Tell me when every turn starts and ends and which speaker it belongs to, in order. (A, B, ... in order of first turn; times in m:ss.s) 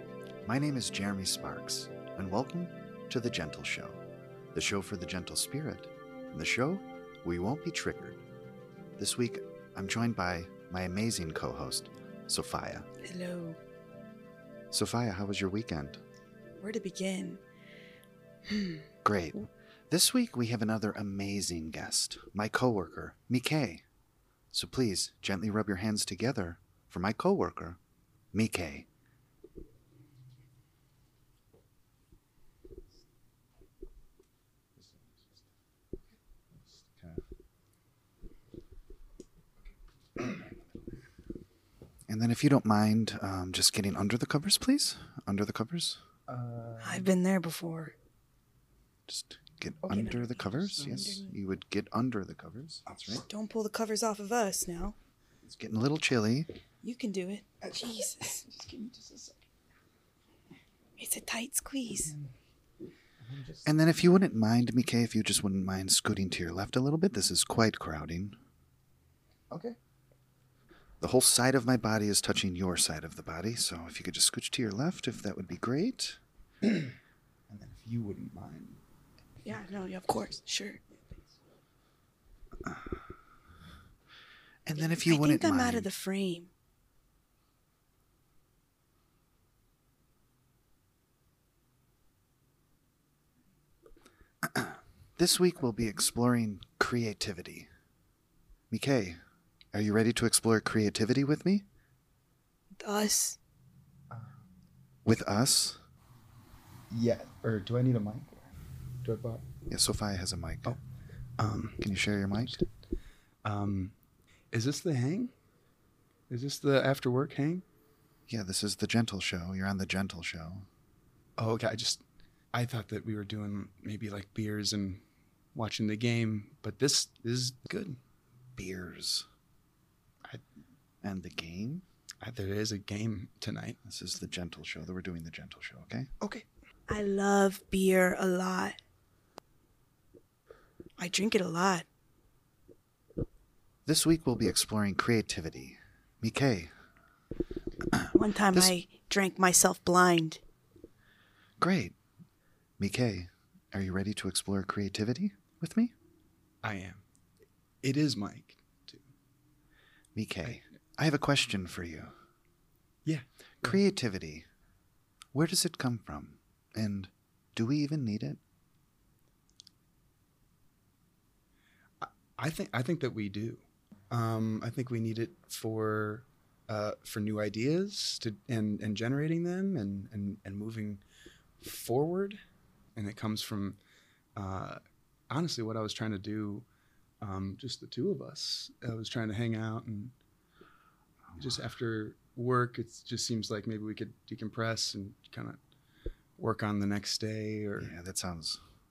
0:00.4-0:04.0 A
0:04.5-0:08.2 A
0:09.0-0:12.9 A
0:13.0-0:13.6 B
0:14.7-0:16.0 A
0:16.6-0:17.4 B
0:18.5-0:18.8 B
0:19.0-0:23.8 A
0:24.5-0:27.8 A
0:28.3-0:28.9 A
0:42.1-0:46.0 A
0:46.3-0:47.1 C
0:46.8-0:48.0 B
0:49.1-0:53.2 A
0:49.8-0:51.2 C
0:50.8-0:51.3 B
0:52.8-0:53.3 C
0:53.2-0:55.0 B
0:55.4-0:56.5 A
0:56.8-0:58.8 B
0:58.7-0:59.3 C
1:01.0-1:02.1 B
1:03.2-1:03.8 C
1:03.6-1:08.4 A
1:09.5-1:09.8 C
1:11.0-1:16.2 A
1:16.6-1:16.9 C
1:17.5-1:18.8 C
1:19.4-1:20.8 B
1:24.6-1:25.9 A
1:24.8-1:26.5 B
1:34.4-1:37.7 A
1:38.7-1:39.2 A
1:39.7-1:41.6 A
1:42.8-1:43.4 B
1:44.1-1:44.4 C
1:45.0-1:45.8 A
1:46.9-1:48.5 C
1:49.0-1:49.4 C
1:49.7-1:50.8 A
1:51.4-1:52.6 C
1:51.8-1:52.6 A
1:53.4-1:53.9 C
1:54.5-1:55.3 C
1:56.3-1:57.6 C
1:58.3-2:00.7 A
2:01.4-2:02.0 C
2:02.5-2:05.0 C
2:05.5-2:08.0 C
2:08.6-2:09.3 A
2:11.0-2:11.8 A
2:12.2-2:13.8 C
2:13.8-2:16.1 A
2:16.9-2:18.8 B
2:21.0-2:21.8 B
2:23.8-2:26.7 A
2:28.1-2:30.4 B
2:31.6-2:32.0 A
2:32.8-2:35.9 A
2:36.6-2:37.0 C
2:37.8-2:39.0 C
2:40.1-2:42.1 A
2:43.0-2:43.8 C
2:43.6-2:44.5 A
2:45.3-2:48.4 A
2:52.0-3:01.0 C
3:01.6-3:02.4 C
3:03.0-3:03.8 C
3:04.4-3:06.6 C
3:07.2-3:10.1 C
3:11.4-3:15.6 C
3:16.4-3:17.9 C
3:17.8-3:18.6 A